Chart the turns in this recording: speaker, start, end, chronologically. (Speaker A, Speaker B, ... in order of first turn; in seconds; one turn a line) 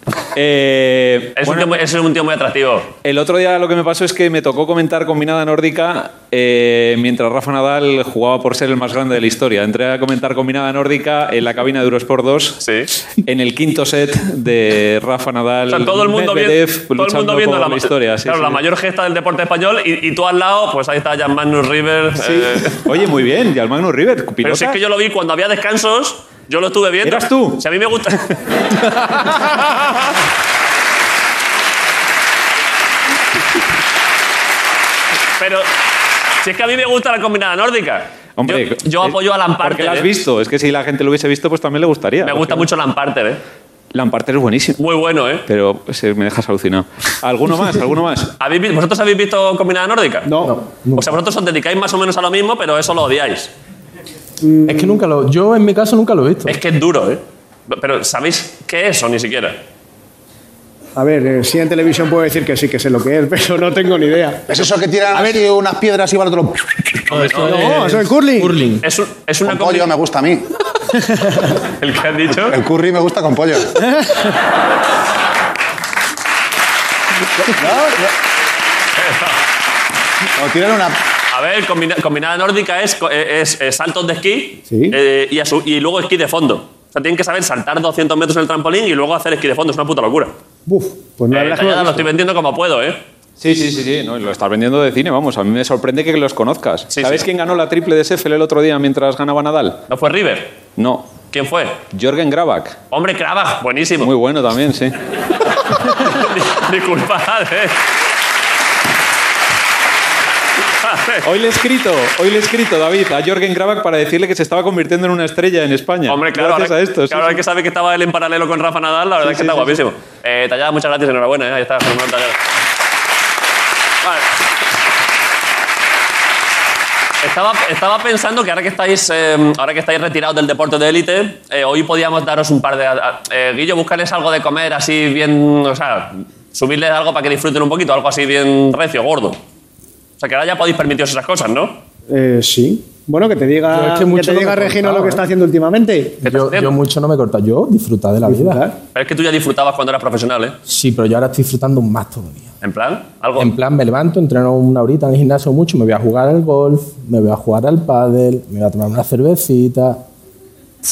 Speaker A: 0.3-1.8
Speaker B: 1.3-2.9
Speaker A: 3.0-12.6
Speaker B: 12.6-12.9
Speaker A: 13.3-18.6
Speaker B: 15.7-22.8
Speaker A: 22.2-24.8
Speaker B: 24.4-28.4
Speaker A: 27.0-27.6
Speaker B: 35.4-35.7
Speaker B: 36.4-40.1
Speaker A: 38.4-42.7
Speaker B: 42.2-43.4
Speaker A: 43.9-44.8
Speaker B: 44.8-45.5
Speaker A: 45.5-48.3
Speaker B: 48.4-50.3
Speaker C: 50.3-50.6
Speaker D: 50.4-51.1
Speaker B: 51.0-53.5
Speaker C: 54.4-55.0
Speaker D: 54.7-56.6
Speaker B: 56.5-59.6
Speaker C: 61.0-64.6
Speaker E: 64.5-66.8
Speaker C: 65.2-65.4
Speaker B: 67.1-67.8
Speaker D: 67.1-68.9
Speaker C: 67.4-68.6
Speaker B: 68.8-69.9
Speaker E: 69.5-70.4
Speaker C: 71.1-71.5
Speaker B: 71.8-72.6
Speaker E: 72.5-73.7
Speaker C: 73.8-74.3
Speaker B: 79.0-79.4
Speaker E: 80.4-81.0
Speaker B: 81.3-90.3
Speaker C: 84.7-85.0
Speaker C: 90.7-92.1
Speaker B: 91.3-93.0
Speaker A: 93.4-99.8
Speaker B: 96.9-97.3
Speaker B: 99.9-100.6
Speaker A: 100.8-101.1
Speaker B: 101.3-101.8
Speaker A: 101.9-102.8
Speaker B: 102.9-104.1
Speaker A: 104.0-104.9
Speaker B: 105.9-107.8
Speaker B: 110.8-111.3
Speaker A: 111.2-117.4
Speaker B: 116.1-122.4
Speaker A: 119.2-119.8
Speaker B: 127.2-139.4
Speaker B: 140.2-141.8
Speaker C: 142.1-146.3
Speaker D: 143.7-145.3
Speaker D: 146.2-148.6
Speaker B: 146.2-146.8
Speaker C: 148.2-148.8
Speaker B: 148.9-150.6
Speaker D: 150.7-152.5
Speaker B: 152.6-153.5
Speaker D: 153.4-160.0